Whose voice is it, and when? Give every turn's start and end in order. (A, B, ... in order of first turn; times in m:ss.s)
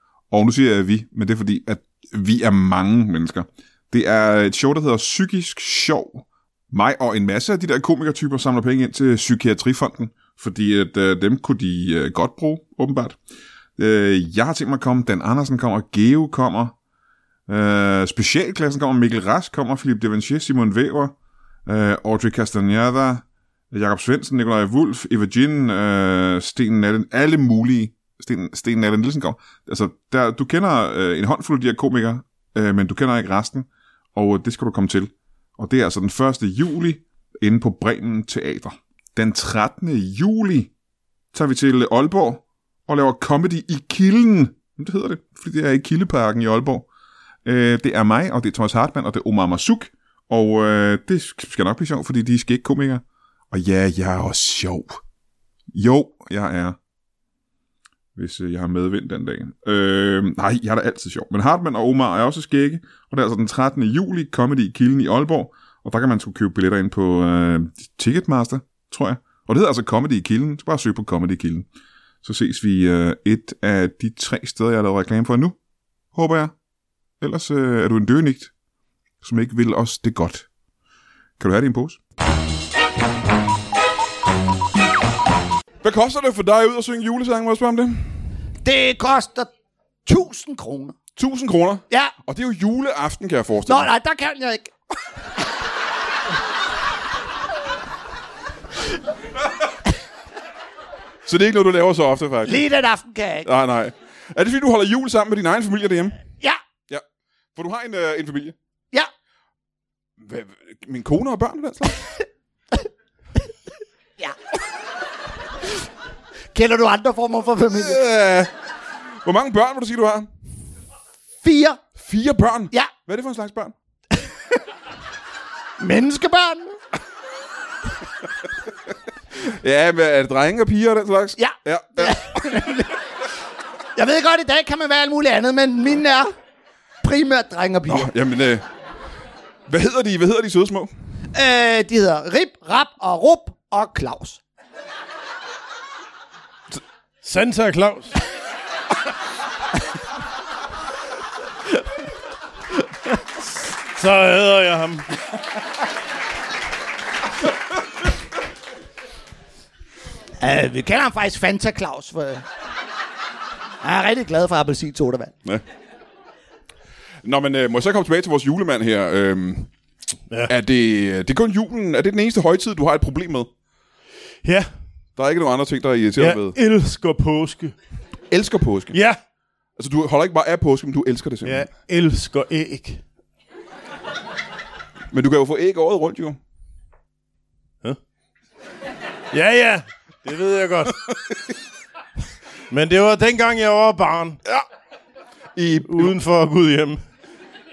0:00.3-0:13.2 A
0:13.8-0:16.8 A
0:17.5-0:21.1 A
0:21.7-0:40.7 A
0:41.3-0:46.9 A
0:47.4-0:55.0 A
0:55.7-0:56.8 A
0:58.2-1:11.7 A
1:12.2-1:15.6 A
1:16.1-1:16.5 A
1:17.2-1:18.5 A
1:19.2-1:20.5 A
1:21.4-1:22.0 A
1:25.8-1:28.3 A
1:28.6-1:29.5 B
1:30.0-1:31.0 B
1:31.2-1:33.9 A
1:33.7-1:34.7 B
1:41.3-1:42.6 A
1:42.4-1:43.5 B
1:43.4-1:46.2 A
1:47.6-1:48.6 A
1:50.2-1:52.0 A
1:56.5-1:58.0 B
1:57.7-1:58.5 A
1:59.2-2:00.3 A
2:01.4-2:01.8 B
2:02.0-2:03.8 A
2:04.1-2:04.6 B
2:05.8-2:06.8 B
2:09.4-2:12.6 A
2:11.4-2:12.9 B
2:14.0-2:16.3 B
2:17.0-2:18.1 B
2:17.9-2:18.6 A
2:19.7-2:20.9 A
2:21.3-2:24.4 B
2:27.2-2:28.2 C
2:33.7-2:35.1 C
2:40.4-2:42.4 B
2:43.8-2:45.3 B
2:47.2-2:49.7 A
2:50.5-2:53.5 A
2:54.4-2:54.7 C
2:55.2-2:56.6 A
2:56.2-2:57.7 C
2:58.3-2:59.0 A
2:58.9-2:59.2 C
2:59.8-3:01.7 A
3:01.4-3:03.0 C
3:05.1-3:06.4 A
3:09.3-3:11.0 C
3:11.1-3:11.4 A
3:12.7-3:14.4 C
3:15.6-3:16.1 A
3:15.9-3:17.0 C